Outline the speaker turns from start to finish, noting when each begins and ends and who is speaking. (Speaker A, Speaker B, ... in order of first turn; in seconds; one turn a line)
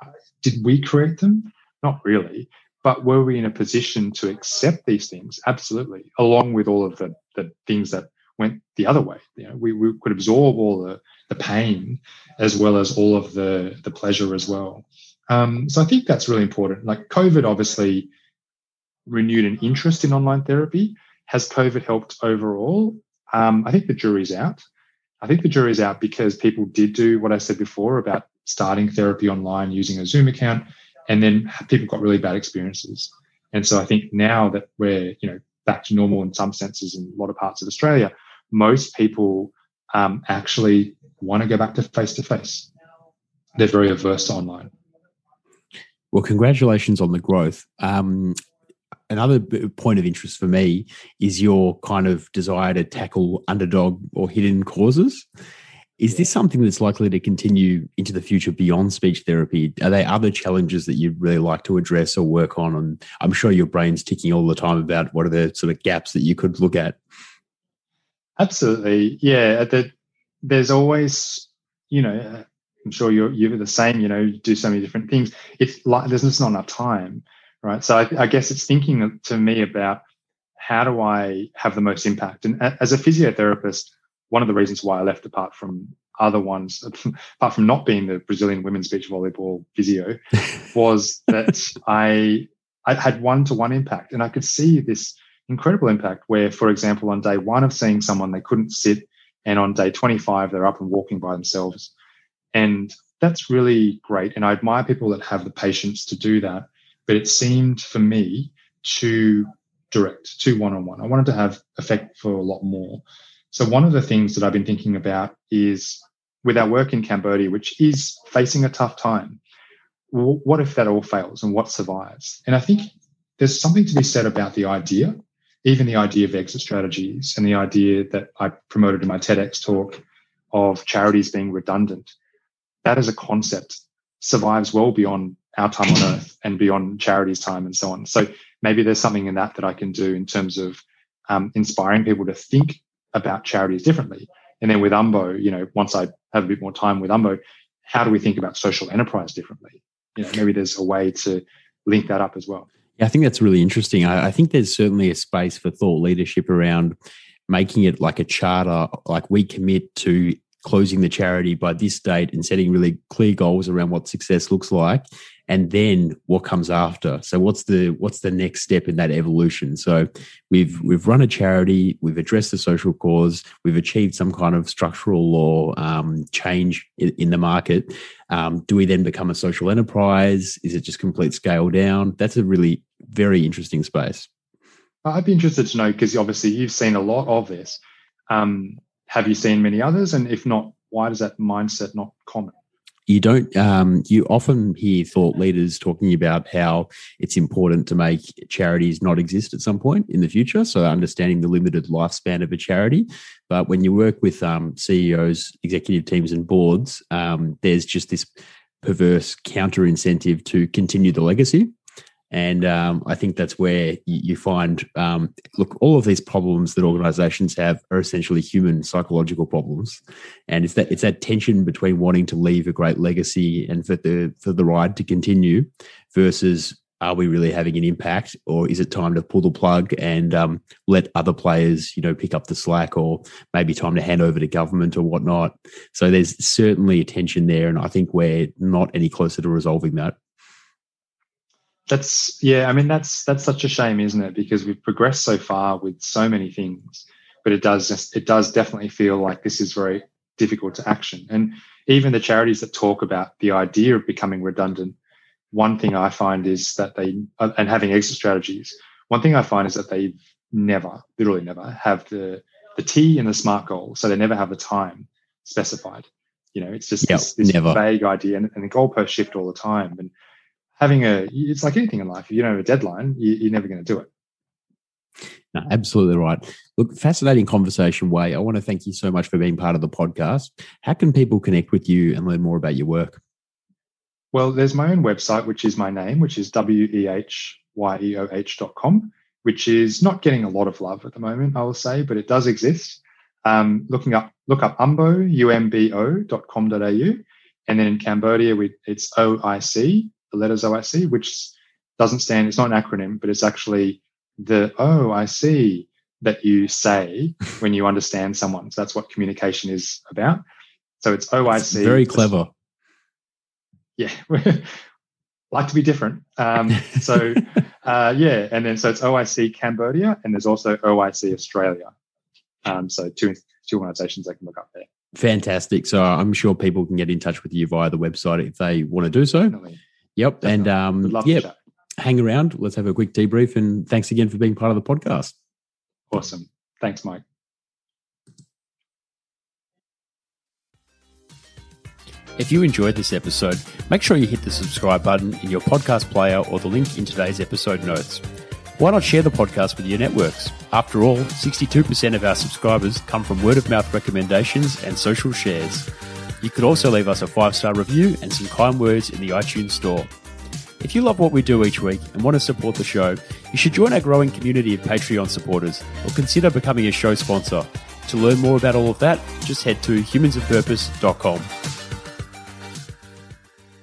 Speaker A: 0.4-18.1
Speaker A: 19.1-24.6
Speaker A: 25.2-42.7
Speaker A: 43.6-44.7
Speaker B: 46.1-48.4
Speaker B: 49.1-55.3
Speaker B: 56.0-67.0
Speaker A: 68.4-69.9
Speaker A: 70.4-80.0
Speaker A: 80.6-90.2
Speaker A: 90.7-101.9
Speaker A: 102.5-119.4
Speaker A: 120.1-132.1
Speaker A: 132.8-152.7
Speaker B: 153.0-156.9
Speaker B: 157.5-184.3
Speaker A: 185.0-192.6
Speaker B: 193.1-208.3
Speaker B: 208.8-211.7
Speaker B: 212.3-240.2
Speaker A: 241.9-255.0
Speaker A: 255.5-270.1
Speaker B: 267.0-267.8
Speaker A: 270.8-274.1
Speaker B: 275.5-283.2
Speaker A: 284.3-310.4
Speaker A: 311.0-312.3
Speaker B: 311.6-312.5
Speaker A: 314.0-314.8
Speaker A: 315.5-321.9
Speaker A: 322.6-324.9
Speaker B: 325.1-329.6
Speaker A: 329.5-329.8
Speaker B: 330.2-331.5
Speaker A: 330.4-331.6
Speaker B: 332.0-335.3
Speaker A: 336.1-337.2
Speaker B: 342.4-348.2
Speaker B: 348.8-355.9
Speaker B: 356.4-360.1
Speaker B: 360.8-371.5